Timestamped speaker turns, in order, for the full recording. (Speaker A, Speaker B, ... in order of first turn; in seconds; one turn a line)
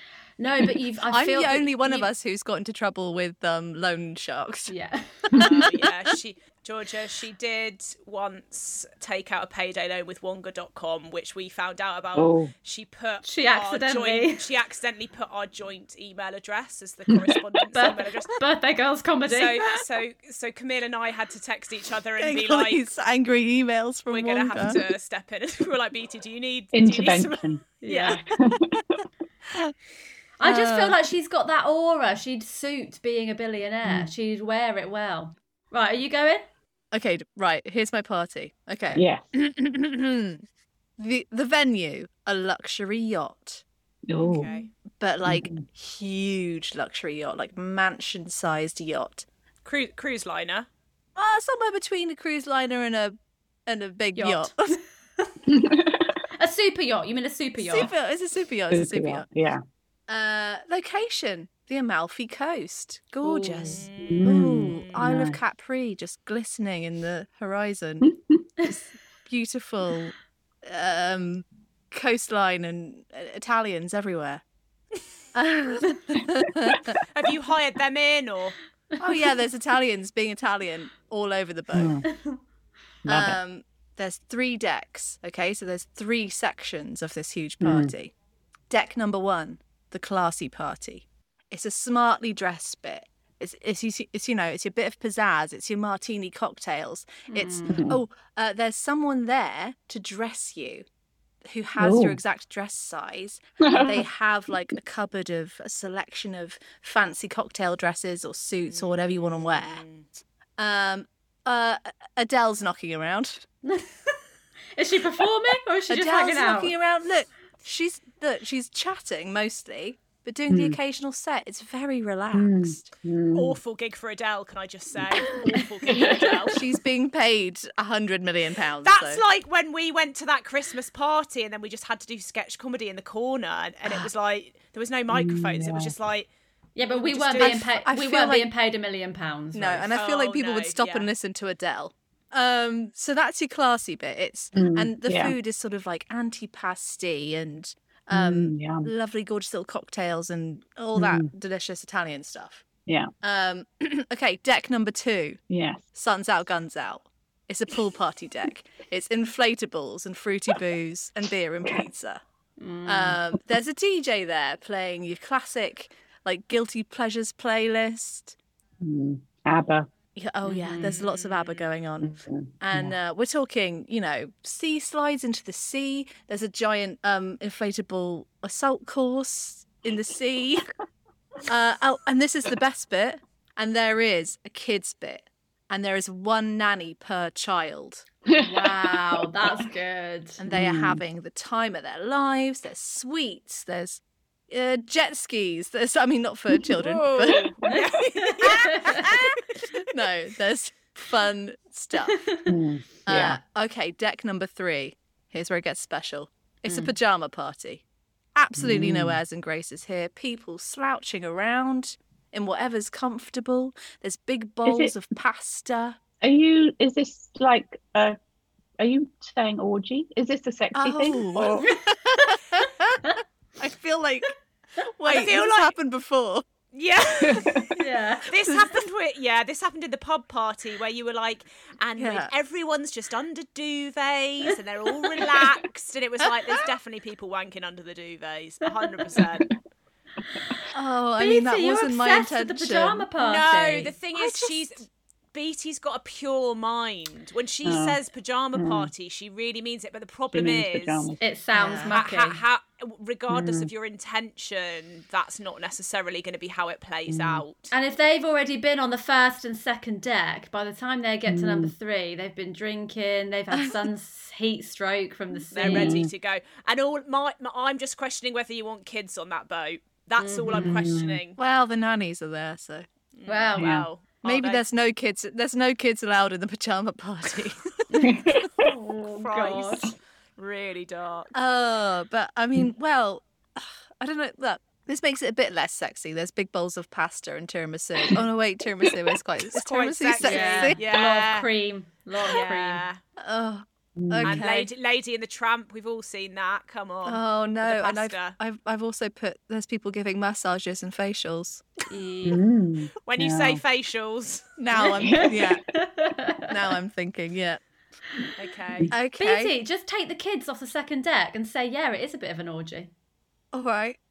Speaker A: 0.4-2.1
Speaker B: 1.1-4.7
Speaker A: 4.7-5.4
Speaker C: 5.4-18.4
Speaker D: 12.2-12.5
Speaker A: 13.2-14.4
Speaker A: 17.8-19.6
Speaker C: 19.3-22.8
Speaker B: 22.2-24.8
Speaker C: 24.1-28.2
Speaker D: 26.7-29.0
Speaker A: 27.8-28.2
Speaker A: 30.4-36.5
Speaker B: 30.4-31.0
Speaker D: 33.8-34.1
Speaker B: 36.9-40.4
Speaker D: 38.9-39.2
Speaker B: 41.0-43.6
Speaker D: 44.1-44.5
Speaker C: 44.2-44.7
Speaker B: 45.0-49.3
Speaker D: 45.2-45.6
Speaker C: 49.6-50.7
Speaker B: 51.2-53.1
Speaker B: 53.7-54.8
Speaker A: 54.2-55.3
Speaker D: 55.5-56.1
Speaker A: 56.4-57.9
Speaker B: 57.6-59.3
Speaker D: 58.7-59.6
Speaker B: 60.1-74.4
Speaker C: 63.6-65.0
Speaker D: 64.0-65.4
Speaker B: 75.3-76.9
Speaker C: 77.1-78.6
Speaker B: 79.0-82.0
Speaker D: 81.7-82.1
Speaker A: 82.1-82.4
Speaker B: 83.1-88.1
Speaker D: 83.1-83.4
Speaker D: 87.6-87.9
Speaker B: 88.7-100.8
Speaker A: 97.3-97.8
Speaker D: 97.7-98.0
Speaker B: 101.4-109.8
Speaker D: 101.8-102.2
Speaker D: 103.6-104.1
Speaker C: 108.7-110.1
Speaker B: 110.6-113.5
Speaker A: 113.6-114.2
Speaker A: 114.8-116.7
Speaker B: 115.9-122.9
Speaker D: 120.5-120.8
Speaker D: 122.3-123.6
Speaker C: 123.3-126.6
Speaker D: 125.9-126.5
Speaker B: 126.5-129.2
Speaker C: 128.8-136.3
Speaker D: 135.1-135.9
Speaker A: 136.8-139.9
Speaker C: 136.9-137.7
Speaker B: 137.4-138.5
Speaker B: 139.5-152.7
Speaker C: 139.9-141.1
Speaker D: 144.5-145.3
Speaker D: 148.1-148.9
Speaker D: 151.0-151.3
Speaker D: 152.9-153.1
Speaker B: 153.2-155.4
Speaker D: 155.5-155.8
Speaker B: 155.9-162.2
Speaker A: 162.6-163.2
Speaker B: 162.8-168.3
Speaker D: 168.8-169.9
Speaker B: 170.2-180.6
Speaker A: 170.5-171.0
Speaker C: 170.9-171.7
Speaker D: 172.0-172.9
Speaker B: 181.5-188.0
Speaker D: 188.3-189.3
Speaker A: 188.4-190.4
Speaker B: 190.4-197.4
Speaker D: 190.5-191.0
Speaker C: 196.8-199.4
Speaker D: 197.3-197.8
Speaker A: 197.7-199.1
Speaker B: 198.7-202.2
Speaker A: 202.1-202.5
Speaker D: 202.5-203.4
Speaker B: 203.1-207.8
Speaker B: 208.3-216.0
Speaker D: 208.6-209.2
Speaker D: 214.7-214.9
Speaker D: 216.2-218.2
Speaker D: 218.8-221.7
Speaker B: 220.8-226.4
Speaker C: 225.1-225.7
Speaker C: 226.7-227.7
Speaker D: 227.2-227.7
Speaker A: 227.8-228.3
Speaker C: 228.3-239.5
Speaker B: 232.0-232.3
Speaker B: 240.7-243.1
Speaker A: 241.2-243.9
Speaker C: 243.2-251.1
Speaker B: 244.1-244.7
Speaker D: 247.6-248.0
Speaker D: 248.6-248.9
Speaker D: 250.3-251.2
Speaker A: 251.2-252.4
Speaker B: 251.5-252.0
Speaker C: 251.9-257.7
Speaker D: 253.3-253.7
Speaker D: 257.1-257.4
Speaker A: 257.7-266.1
Speaker D: 261.3-261.7
Speaker C: 265.5-271.4
Speaker D: 265.6-266.1
Speaker A: 270.2-270.8
Speaker D: 270.5-271.2
Speaker B: 271.4-272.9
Speaker C: 273.1-274.6
Speaker A: 273.3-273.8
Speaker D: 273.6-273.9
Speaker B: 274.2-277.9
Speaker A: 277.9-279.9
Speaker D: 278.0-278.7
Speaker C: 279.1-281.3
Speaker B: 281.3-290.8
Speaker C: 289.5-291.5
Speaker A: 290.2-292.9
Speaker C: 292.2-293.0
Speaker B: 293.2-294.7
Speaker D: 294.0-294.4
Speaker C: 294.2-298.4
Speaker B: 297.1-301.7
Speaker A: 301.9-302.4
Speaker D: 302.2-303.6
Speaker C: 303.1-304.5
Speaker B: 304.6-305.6
Speaker A: 304.8-306.5
Speaker D: 305.0-305.5
Speaker B: 306.5-307.6
Speaker C: 308.4-308.9
Speaker B: 308.9-309.5
Speaker A: 309.2-312.9
Speaker B: 313.5-314.0